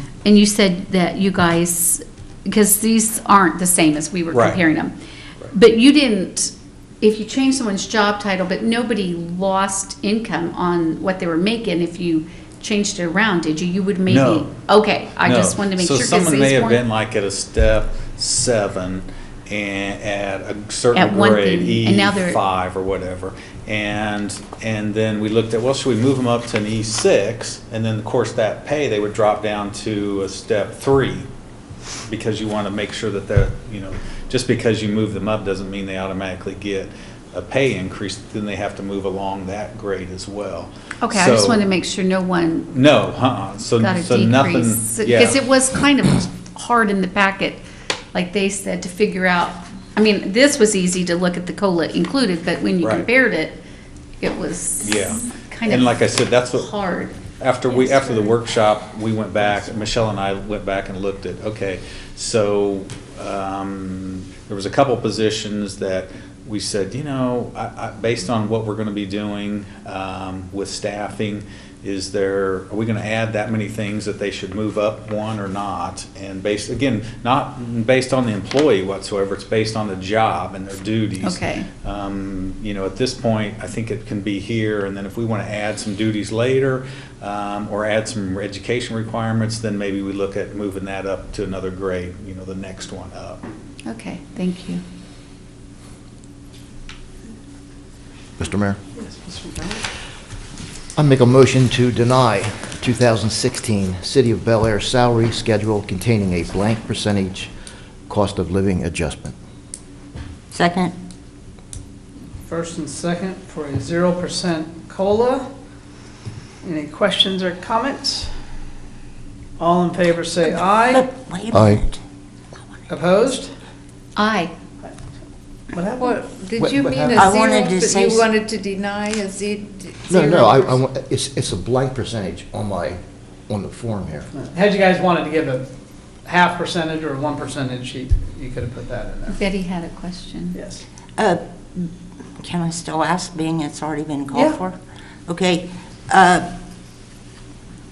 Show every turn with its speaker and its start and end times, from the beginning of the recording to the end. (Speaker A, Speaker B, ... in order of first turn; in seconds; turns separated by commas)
Speaker A: 0.2-4.9, Speaker B: 4.3-4.6, Speaker A: 5.5-16.8, Speaker B: 14.1-14.5, Speaker B: 15.2-31.2, Speaker A: 20.9-22.4, Speaker B: 32.1-41.6, Speaker A: 41.0-42.8, Speaker B: 42.7-45.4, Speaker A: 43.8-53.6, Speaker B: 52.8-53.1, Speaker A: 54.2-56.0, Speaker B: 54.8-56.7, Speaker A: 56.5-57.1, Speaker B: 57.4-93.4, Speaker A: 57.8-58.2, Speaker A: 81.2-81.7, Speaker A: 93.8-94.8, Speaker C: 98.4-98.8, Speaker D: 99.0-99.8, Speaker C: 101.0-107.5, Speaker C: 108.1-109.3, Speaker E: 110.5-111.0, Speaker D: 112.5-115.5, Speaker D: 116.6-118.3, Speaker D: 119.6-121.0, Speaker E: 120.8-122.0, Speaker C: 121.5-121.8, Speaker D: 122.9-123.5, Speaker A: 124.2-124.5, Speaker D: 125.7-126.1, Speaker F: 125.9-130.8, Speaker C: 126.6-127.2, Speaker E: 127.1-128.3, Speaker C: 130.1-134.3, Speaker D: 134.3-135.7, Speaker D: 136.2-139.4, Speaker A: 139.3-140.6, Speaker D: 140.5-140.8, Speaker E: 141.2-146.5